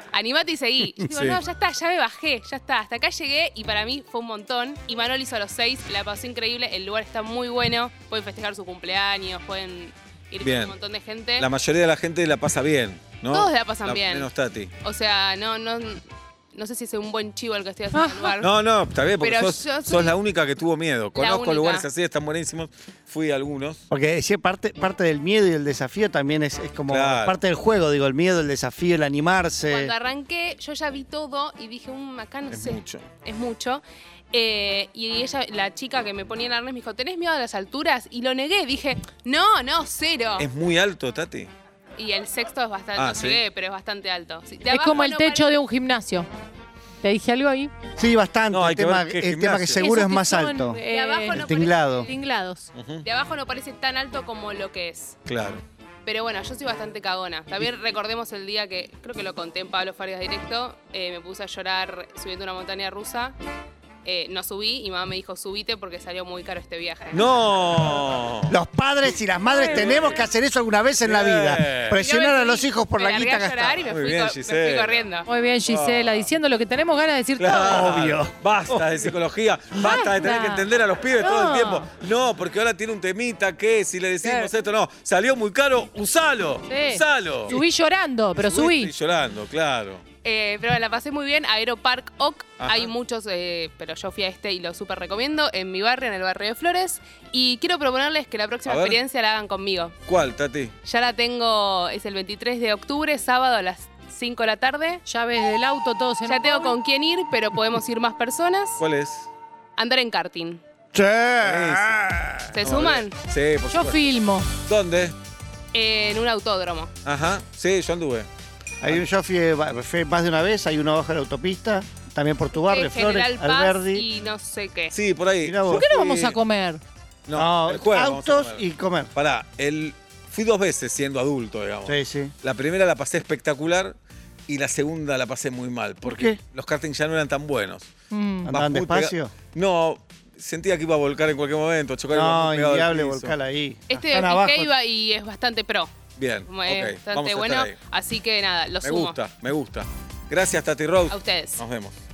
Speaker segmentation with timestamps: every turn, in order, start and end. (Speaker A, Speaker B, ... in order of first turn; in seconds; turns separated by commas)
Speaker A: 0.1-11.5, Speaker B: 1.0-1.4, Speaker B: 10.4-10.8, Speaker B: 11.4-14.7, Speaker A: 13.3-14.3, Speaker A: 14.8-18.5, Speaker C: 17.9-18.3, Speaker B: 18.4-23.8, Speaker A: 19.2-20.1, Speaker A: 21.2-21.9, Speaker D: 23.9-29.9, Speaker B: 26.9-27.4, Speaker A: 29.7-40.5, Speaker B: 32.5-33.1, Speaker B: 40.4-41.5, Speaker A: 42.0-45.6, Speaker B: 43.0-43.4, Speaker C: 44.7-46.3, Speaker C: 47.0-47.7, Speaker D: 48.0-50.8, Speaker B: 48.5-49.9, Speaker C: 49.7-51.4, Speaker A: 50.9-52.2, Speaker D: 51.3-52.1, Speaker C: 52.0-52.7, Speaker B: 52.7-53.0, Speaker A: 53.0-55.2, Speaker B: 55.3-55.6, Speaker A: 56.0-63.4, Speaker A: 64.0-67.3, Speaker B: 67.1-68.6, Speaker D: 68.5-73.8, Speaker B: 69.7-70.3, Speaker B: 71.0-72.0, Speaker A: 72.0-75.3, Speaker B: 73.9-75.0, Speaker C: 75.3-77.9, Speaker B: 75.7-76.3, Speaker B: 77.4-87.6, Speaker D: 77.5-79.0, Speaker C: 79.8-80.7, Speaker C: 81.2-81.8, Speaker C: 84.2-84.5, Speaker C: 86.7-88.9, Speaker B: 88.4-90.0, Speaker A: 90.2-100.0, Speaker B: 92.6-92.9, Speaker B: 98.7-99.0, Speaker B: 100.1-100.7, Speaker A: 100.8-105.0, Speaker C: 105.1-106.8, Speaker A: 106.2-108.8, Speaker B: 108.8-109.3, Speaker A: 109.8-110.6, Speaker D: 110.9-112.5, Speaker B: 111.4-112.1, Speaker A: 112.5-113.2, Speaker B: 112.6-114.0, Speaker C: 113.7-114.5, Speaker B: 114.7-115.2, Speaker A: 115.7-116.9, Speaker B: 117.0-118.3, Speaker D: 118.8-124.1, Speaker A: 122.6-124.9, Speaker B: 124.9-126.4, Speaker D: 125.4-125.9, Speaker C: 125.7-126.8, Speaker B: 127.3-134.0, Speaker D: 127.3-129.1, Speaker D: 131.9-132.3, Speaker B: 134.5-137.9, Speaker D: 136.1-136.4, Speaker C: 138.1-138.5, Speaker D: 138.4-139.3, Speaker B: 138.5-143.4, Speaker D: 142.1-144.7, Speaker A: 143.9-145.9, Speaker B: 146.2-147.8, Speaker A: 146.5-149.2, Speaker B: 148.8-152.0, Speaker A: 151.1-151.6